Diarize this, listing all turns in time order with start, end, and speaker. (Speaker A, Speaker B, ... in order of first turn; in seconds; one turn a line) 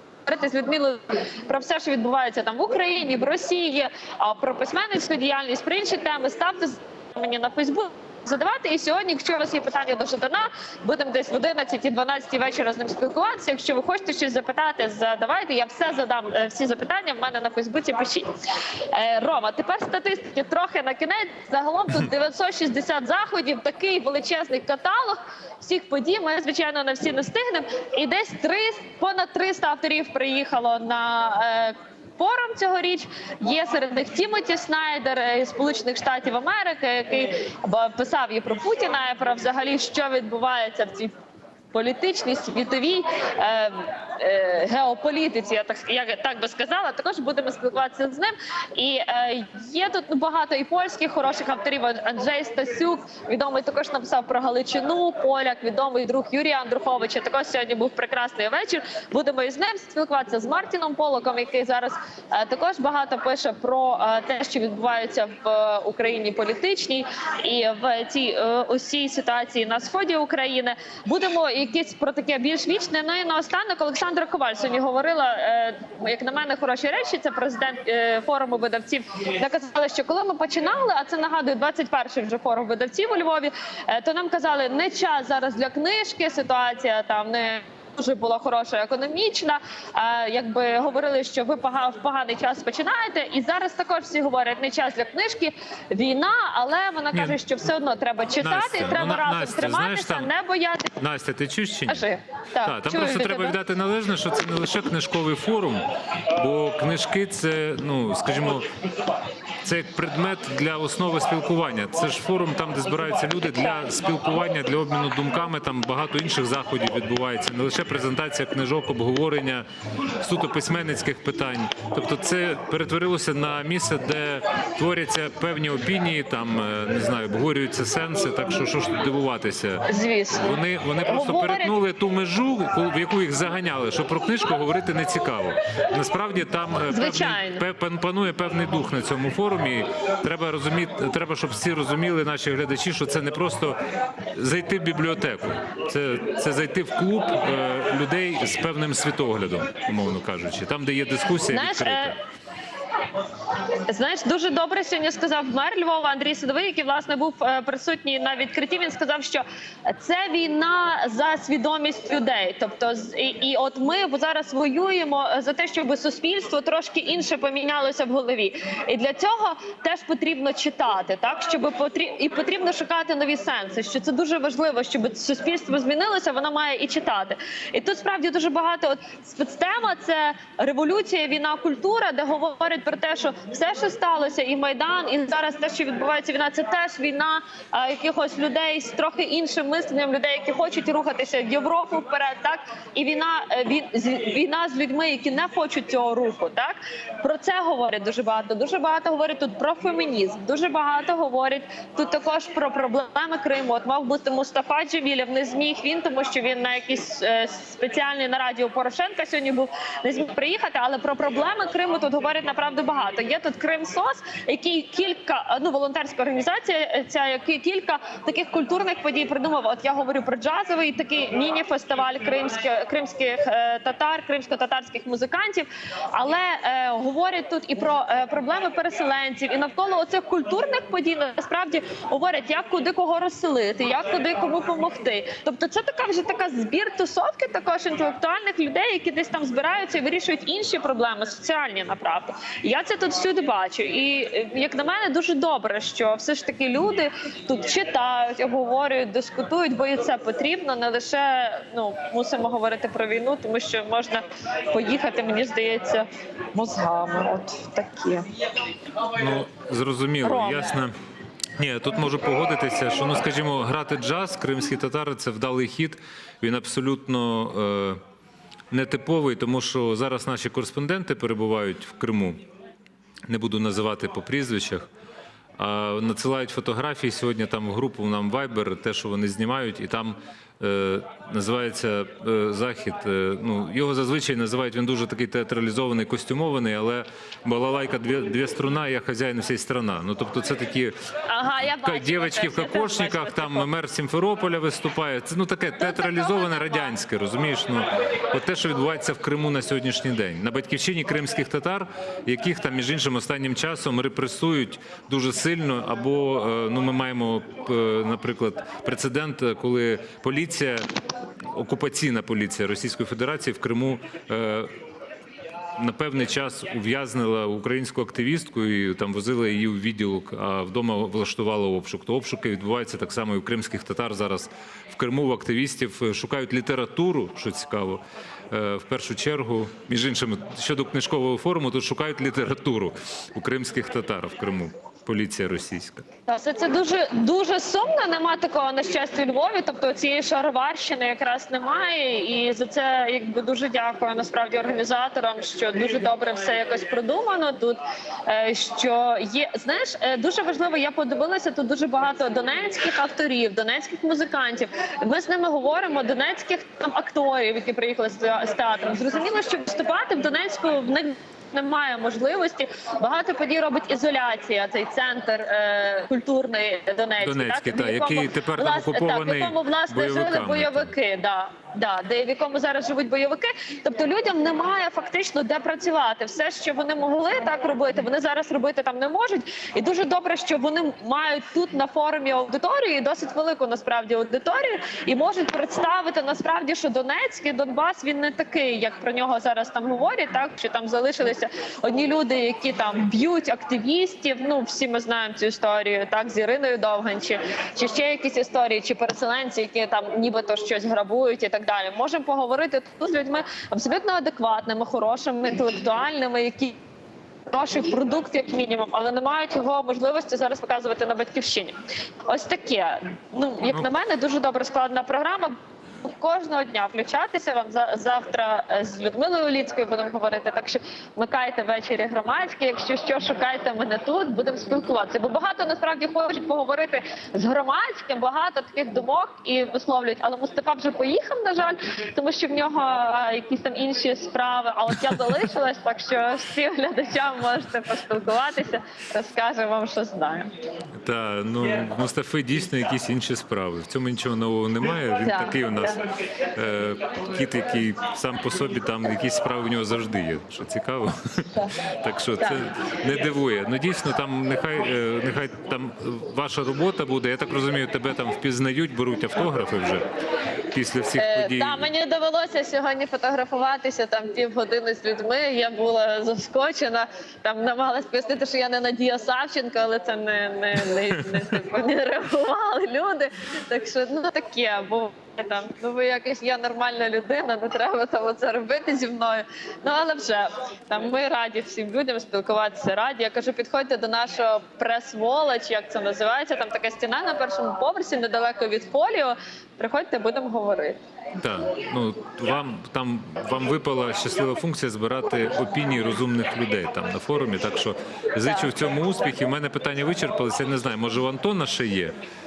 Speaker A: 0.2-18.3
Speaker A: 18.9-41.1
Speaker A: 41.7-101.0
Speaker B: 97.1-97.4
Speaker B: 98.4-100.3
Speaker B: 101.0-102.1
Speaker A: 101.9-103.6
Speaker B: 102.6-108.7
Speaker B: 109.6-119.7
Speaker B: 120.2-129.8
Speaker A: 129.9-131.7
Speaker B: 130.4-143.8
Speaker A: 136.9-137.6
Speaker B: 144.3-152.2
Speaker A: 151.5-152.2
Speaker A: 153.5-258.3
Speaker B: 259.0-260.9
Speaker A: 260.2-260.7
Speaker B: 261.6-268.0
Speaker B: 268.7-272.4
Speaker B: 273.3-274.9
Speaker B: 275.6-290.9
Speaker A: 291.3-293.7
Speaker B: 291.6-310.9
Speaker A: 295.8-296.9
Speaker B: 311.5-314.7
Speaker B: 315.8-336.0
Speaker A: 336.3-406.8
Speaker B: 367.2-370.9
Speaker A: 407.5-440.5
Speaker B: 441.0-446.0
Speaker A: 445.2-446.0
Speaker B: 446.5-460.1
Speaker B: 460.7-461.9
Speaker A: 461.1-491.0
Speaker B: 491.4-502.1